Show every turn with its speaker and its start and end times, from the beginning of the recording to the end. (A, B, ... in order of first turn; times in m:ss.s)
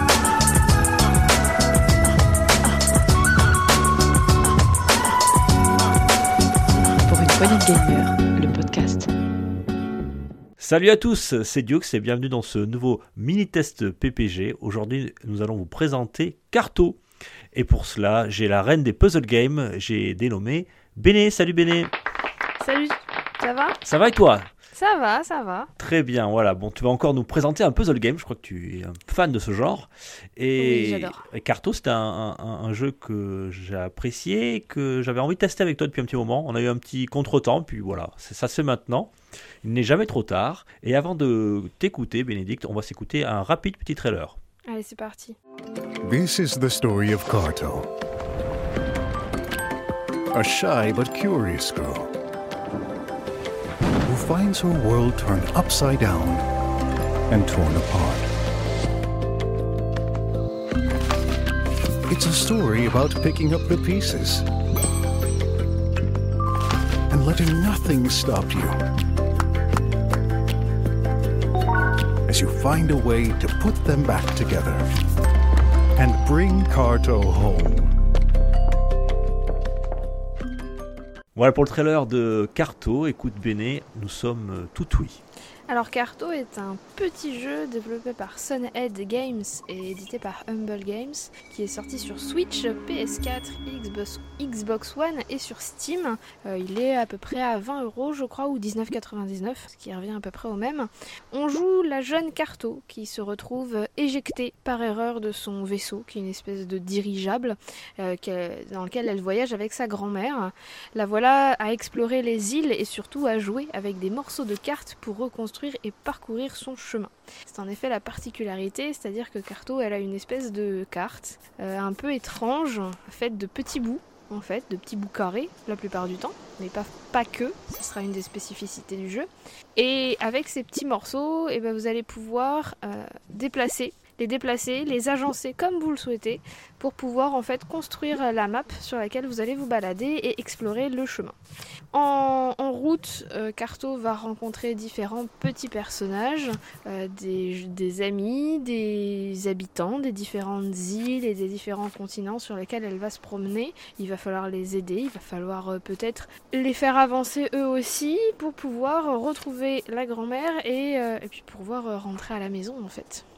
0:07.1-0:09.1 A
0:10.6-0:17.0 B
0:17.5-0:21.9 B
0:22.6-0:23.8 C
0:23.8-0:24.5 B
0:24.7-0:25.7 C
0:25.8-0:39.1 B
0:30.6-0:31.2 C
0:39.6-0:44.4 B
0:44.7-0:45.4 C
0:46.0-0:47.9 D
0:50.3-0:52.1 D
0:54.0-0:56.5 D
0:57.3-0:58.3 D
1:02.1-1:04.5 D
1:07.1-1:08.8 D
1:12.3-1:14.9 D
1:16.0-1:17.9 D
1:21.4-1:25.2 B
1:25.7-2:21.4 C
2:21.9-2:43.2 C